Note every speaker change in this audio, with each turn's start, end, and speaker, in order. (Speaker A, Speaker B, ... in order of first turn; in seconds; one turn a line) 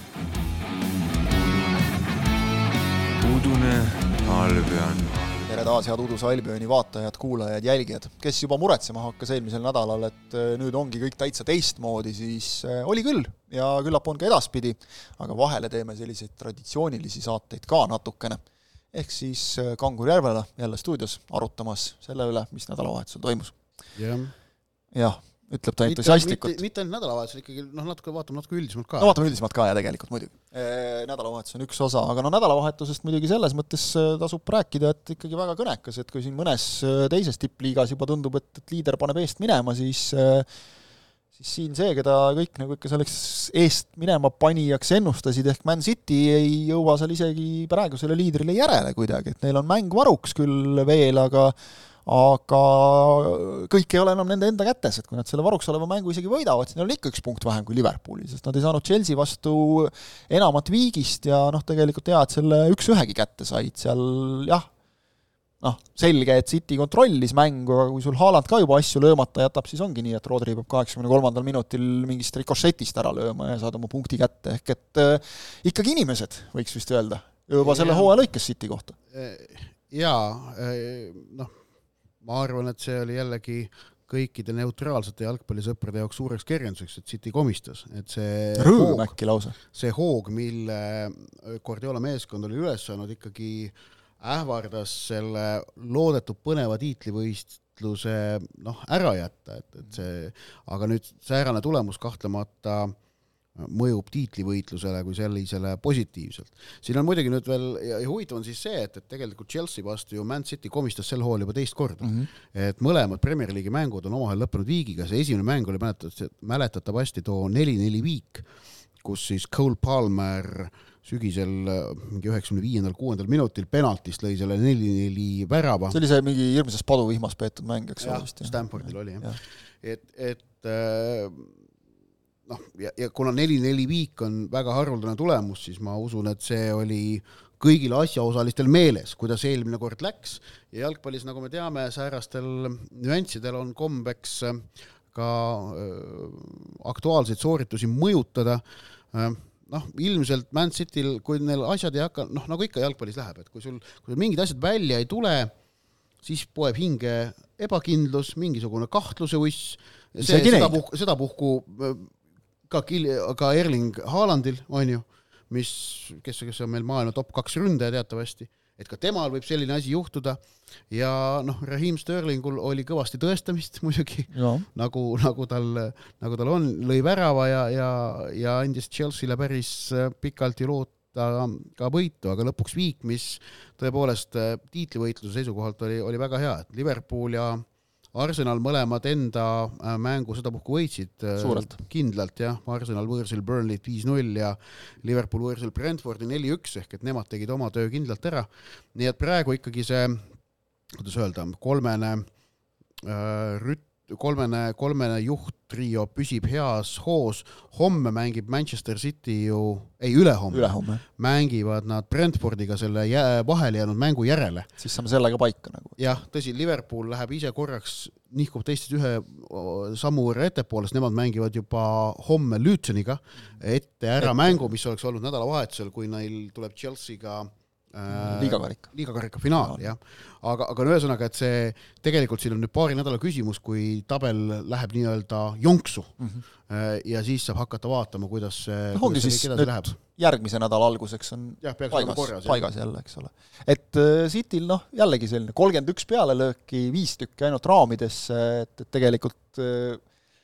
Speaker A: 1.2-2.0
Speaker A: 3.2-5.4
Speaker B: 5.4-23.6
Speaker C: 23.9-24.3
Speaker B: 24.9-26.6
Speaker C: 25.8-29.1
Speaker B: 29.0-40.5
Speaker B: 41.4-64.7
Speaker B: 65.6-79.0
Speaker C: 77.6-78.1
Speaker C: 79.1-81.5
Speaker C: 82.2-89.1
Speaker B: 88.5-89.5
Speaker C: 89.7-103.0
Speaker C: 103.5-118.5
Speaker B: 112.0-112.3
Speaker C: 119.0-126.0
Speaker B: 125.9-129.4
Speaker C: 128.0-129.3
Speaker C: 129.8-131.5
Speaker C: 132.5-155.5
Speaker C: 156.2-162.1
Speaker B: 160.2-160.8
Speaker C: 162.7-200.3
Speaker B: 174.3-174.7
Speaker B: 191.4-191.8
Speaker C: 200.9-202.3
Speaker C: 203.0-214.7
Speaker B: 210.5-211.0
Speaker B: 214.8-216.0
Speaker C: 216.0-236.1
Speaker B: 224.2-224.7
Speaker B: 228.1-228.9
Speaker B: 229.6-229.9
Speaker C: 236.7-239.9
Speaker B: 238.9-250.0
Speaker C: 241.6-242.6